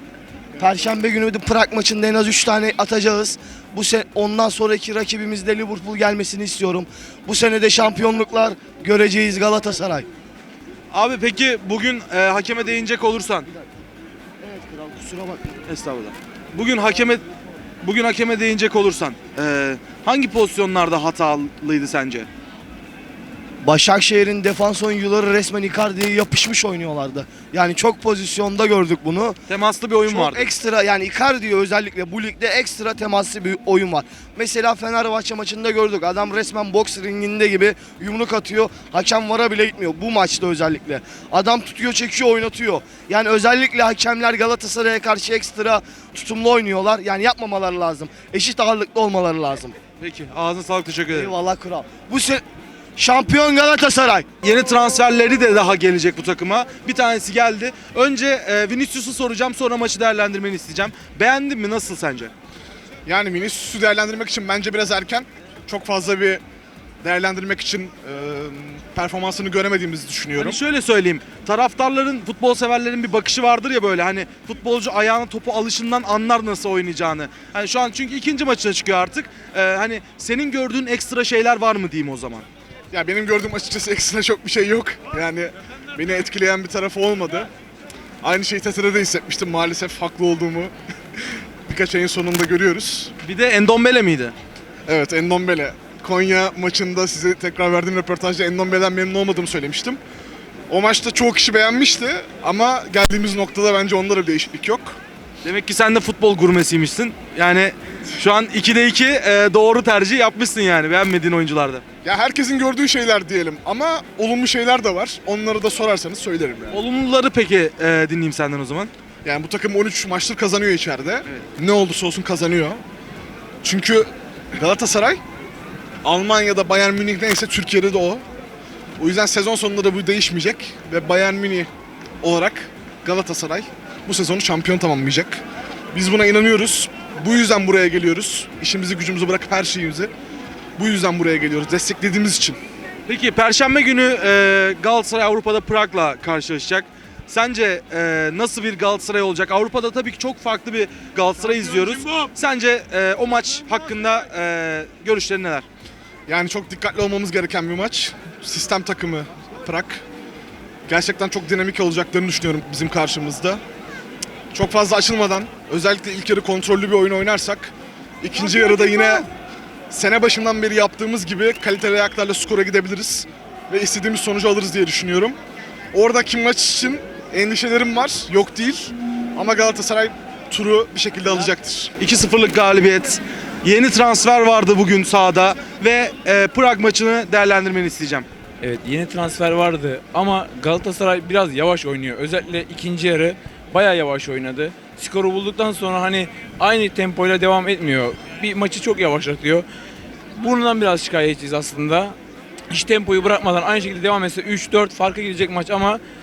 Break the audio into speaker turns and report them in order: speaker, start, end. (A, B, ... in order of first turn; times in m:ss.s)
0:00.6-0:10.0 A
0:10.9-0:13.5 B
0:14.4-0:15.4 A
0:15.7-0:17.2 B
0:17.8-0:22.3 B
0:23.6-0:29.4 A
0:29.5-0:30.5 B
0:30.1-0:49.7 A
0:50.0-0:51.3 B
0:51.1-0:52.4 A
0:53.0-0:54.2 A
0:54.4-1:02.3 B
1:03.0-1:06.4 C
1:07.0-1:10.6 C
1:10.4-1:22.4 B
1:22.9-1:27.5 C
1:28.2-1:33.1 C
1:33.2-1:34.3 B
1:34.9-1:40.0 C
1:40.7-1:45.0 C
1:45.4-1:51.8 B
1:52.0-1:56.8 C
1:56.7-1:58.9 B
1:59.2-2:02.8 C
2:03.6-2:05.2 C
2:06.0-2:08.2 C
2:09.0-2:11.7 C
2:12.2-2:15.4 C
2:15.9-2:20.1 C
2:20.8-2:22.6 C
2:23.1-2:35.6 B
2:36.3-2:40.0 C
2:40.9-2:43.6 C
2:44.5-2:49.3 C
2:49.9-2:55.4 C
2:55.9-3:01.9 C
3:02.0-3:08.3 B
3:08.6-3:19.6 D
3:20.3-3:22.2 D
3:22.7-3:26.0 D